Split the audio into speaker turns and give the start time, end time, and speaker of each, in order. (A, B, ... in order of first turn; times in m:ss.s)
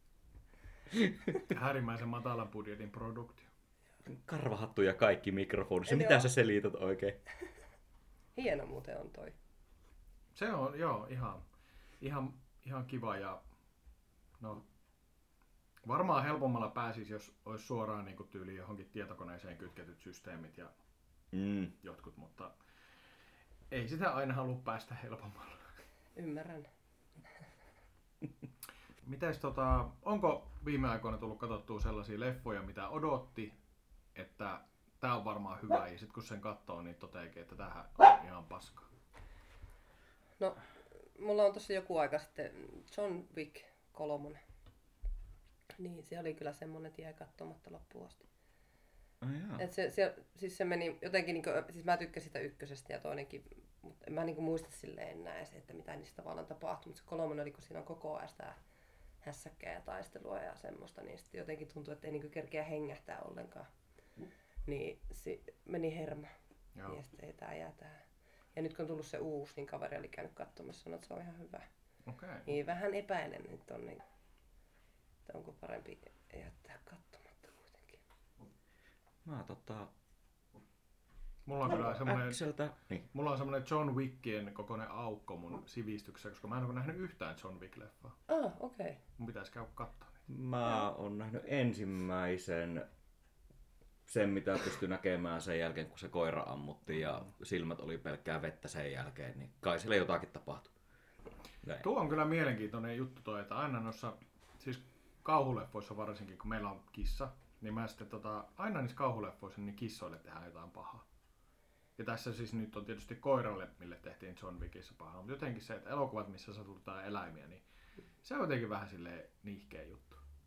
0:01.4-0:03.5 A
0:04.1-0:07.2 B
0:05.9-0:06.3 C
0:08.4-0:09.4 C
0:10.4-0:11.4 A
0:12.0-0:13.4 A
0:14.4-0:14.6 A
0:15.8-0:20.7 A
0:21.3-0:21.7 B
0:21.8-0:22.5 A
0:23.7-0:25.7 A
0:26.2-0:26.7 C
0:29.0-0:33.6 A
0:34.2-0:38.9 A
0:40.4-0:40.6 C
0:41.2-0:44.4 C
0:45.8-0:48.3 C
0:49.2-0:49.6 B
0:49.6-0:58.6 C
0:59.2-1:03.7 C
1:04.7-1:06.3 C
1:06.9-1:08.0 C
1:08.5-1:11.7 C
1:12.1-1:12.5 A
1:12.5-1:14.0 C
1:15.3-1:18.0 C
1:19.2-1:19.9 B
1:21.5-1:22.4 A
1:21.7-1:23.1 B
1:23.1-1:28.2 A
1:28.3-1:29.0 C
1:29.2-1:30.3 A
1:30.3-1:32.9 B
1:34.1-1:40.7 B
1:41.8-1:51.0 A
1:52.0-1:57.6 A
1:58.2-2:00.2 A